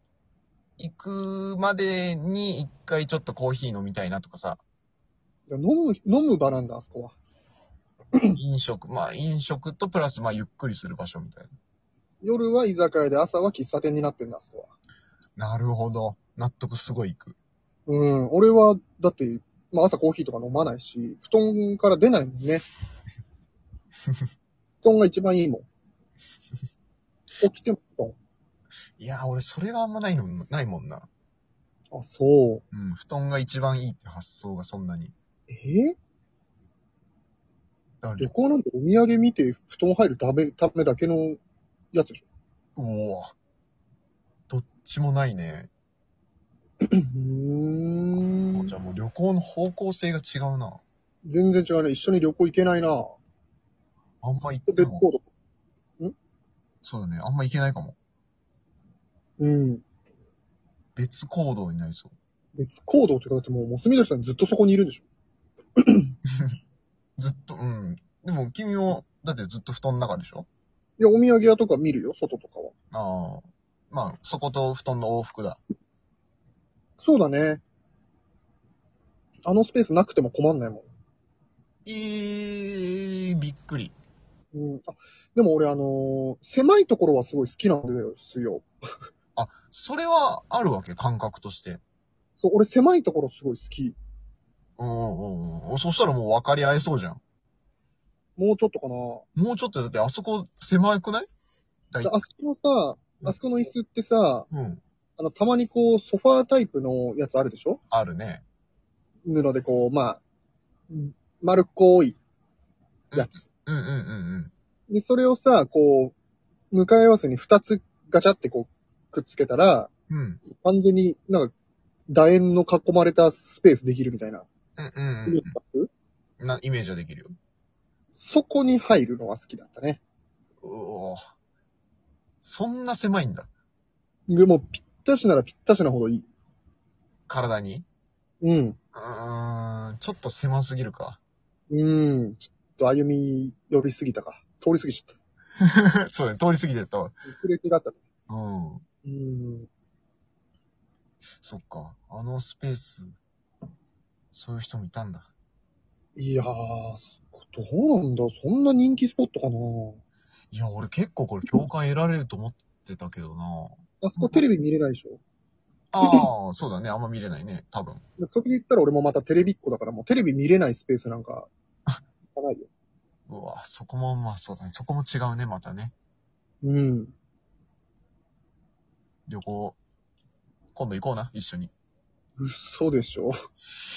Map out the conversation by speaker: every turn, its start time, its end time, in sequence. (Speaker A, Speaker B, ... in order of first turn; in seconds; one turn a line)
Speaker A: 0.8-4.6
Speaker B: 5.5-7.2
Speaker A: 8.4-11.5
Speaker B: 12.2-14.7
Speaker A: 15.4-17.4
Speaker B: 17.9-22.7
Speaker B: 24.8-25.7
Speaker B: 27.4-28.1
Speaker A: 29.0-31.1
Speaker B: 31.9-32.6
Speaker A: 32.7-35.1
Speaker B: 35.5-36.0
Speaker A: 38.0-38.3
Speaker B: 38.2-41.4
Speaker B: 41.9-42.2
Speaker A: 42.8-43.3
Speaker A: 44.5-45.7
Speaker B: 46.8-48.7
Speaker A: 48.5-50.8
Speaker B: 51.2-53.2
Speaker A: 54.2-55.0
Speaker B: 54.7-55.2
Speaker A: 56.8-58.0
Speaker B: 59.4-59.8
Speaker A: 61.0-62.1
Speaker B: 62.5-65.0
Speaker B: 65.8-66.1
Speaker A: 67.2-70.5
Speaker B: 71.0-72.7
Speaker A: 72.9-75.6
Speaker B: 77.0-77.6
Speaker B: 79.5-80.9
Speaker A: 81.9-84.0
Speaker B: 84.5-88.7
Speaker A: 89.4-91.8
Speaker B: 92.4-94.0
Speaker A: 94.8-97.2
Speaker B: 98.4-99.2
Speaker A: 99.4-101.3
Speaker A: 101.9-102.2
Speaker B: 102.0-104.5
Speaker A: 104.5-104.8
Speaker B: 105.2-107.8
Speaker A: 107.9-108.4
Speaker B: 109.3-110.2
Speaker B: 110.9-112.2
Speaker A: 113.1-114.5
Speaker B: 113.1-113.4
Speaker B: 114.9-116.2
Speaker B: 116.7-119.9
Speaker A: 120.1-120.4
Speaker B: 120.5-121.5
Speaker B: 122.1-124.5
Speaker A: 124.8-125.5
Speaker B: 125.3-125.9
Speaker A: 126.4-127.3
Speaker B: 128.2-130.0
Speaker A: 130.6-131.3
Speaker A: 132.4-133.5
Speaker B: 134.3-136.3
Speaker A: 137.3-137.9
Speaker B: 138.4-138.8
Speaker A: 138.9-141.2
Speaker B: 141.7-145.2
Speaker A: 145.6-147.2
Speaker B: 147.2-148.0
Speaker A: 148.3-148.8
Speaker B: 149.1-149.7
Speaker A: 151.4-153.2
Speaker A: 154.3-155.3
Speaker B: 156.2-160.0
Speaker A: 160.5-164.5
Speaker B: 164.0-165.2
Speaker A: 165.9-168.0
Speaker B: 168.2-171.5
Speaker B: 172.3-172.7
Speaker A: 173.3-175.9
Speaker B: 176.6-177.1
Speaker A: 179.3-179.8
Speaker A: 180.8-181.7
Speaker B: 182.4-183.3